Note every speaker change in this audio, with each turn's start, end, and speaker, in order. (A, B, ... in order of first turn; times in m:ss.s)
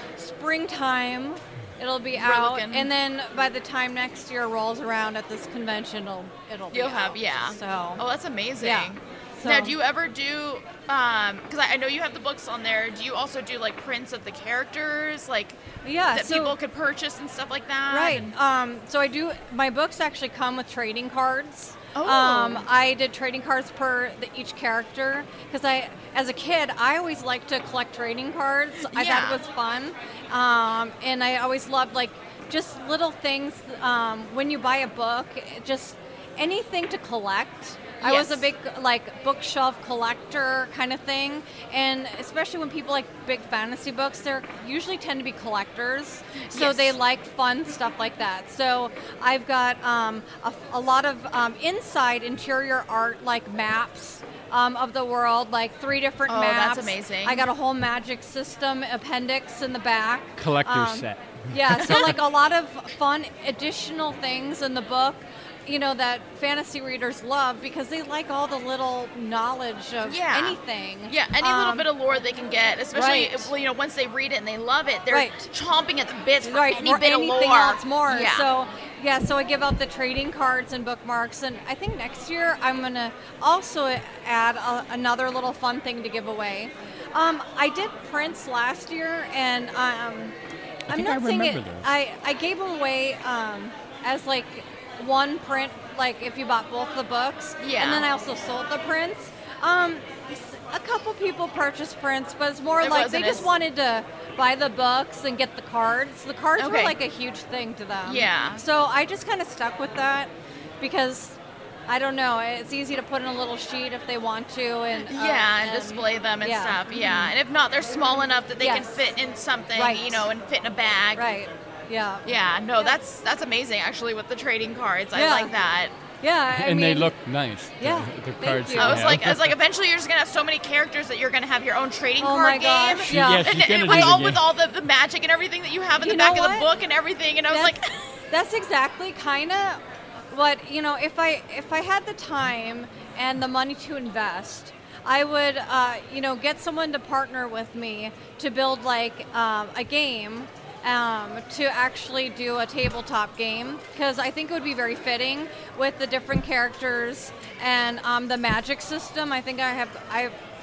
0:00.2-0:08.0 A
0:02.2-0:02.9 B
0:06.7-0:15.6 B
0:08.6-0:09.7 A
0:15.8-0:16.6 A
0:16.1-0:18.3 B
0:17.9-1:11.8 A
0:21.9-0:22.6 B
0:28.9-0:29.4 B
0:38.0-0:38.5 B
0:46.5-0:46.9 B
0:56.3-0:57.4 B
1:00.4-1:02.1 C
1:10.0-1:10.6 B
1:11.1-1:18.5 B
1:12.9-1:13.5 A
1:15.1-1:15.5 A
1:16.4-1:30.3 A
1:30.9-1:31.9 C
1:30.9-1:57.3 A
1:37.6-1:38.0 B
1:42.8-1:43.5 B
1:46.6-1:47.0 B
1:48.0-1:48.6 B
1:55.1-2:01.2 B
1:58.6-1:58.9 A
1:59.7-2:00.2 A
2:01.2-2:02.2 A
2:02.2-2:05.9 B
2:05.1-2:05.5 A
2:06.2-2:07.1 A
2:06.5-2:09.5 C
2:07.8-2:09.2 A
2:08.8-2:17.8 B
2:12.2-2:14.3 A
2:13.0-2:14.4 C
2:16.0-2:16.7 A
2:17.5-2:17.8 A
2:18.3-2:40.3 A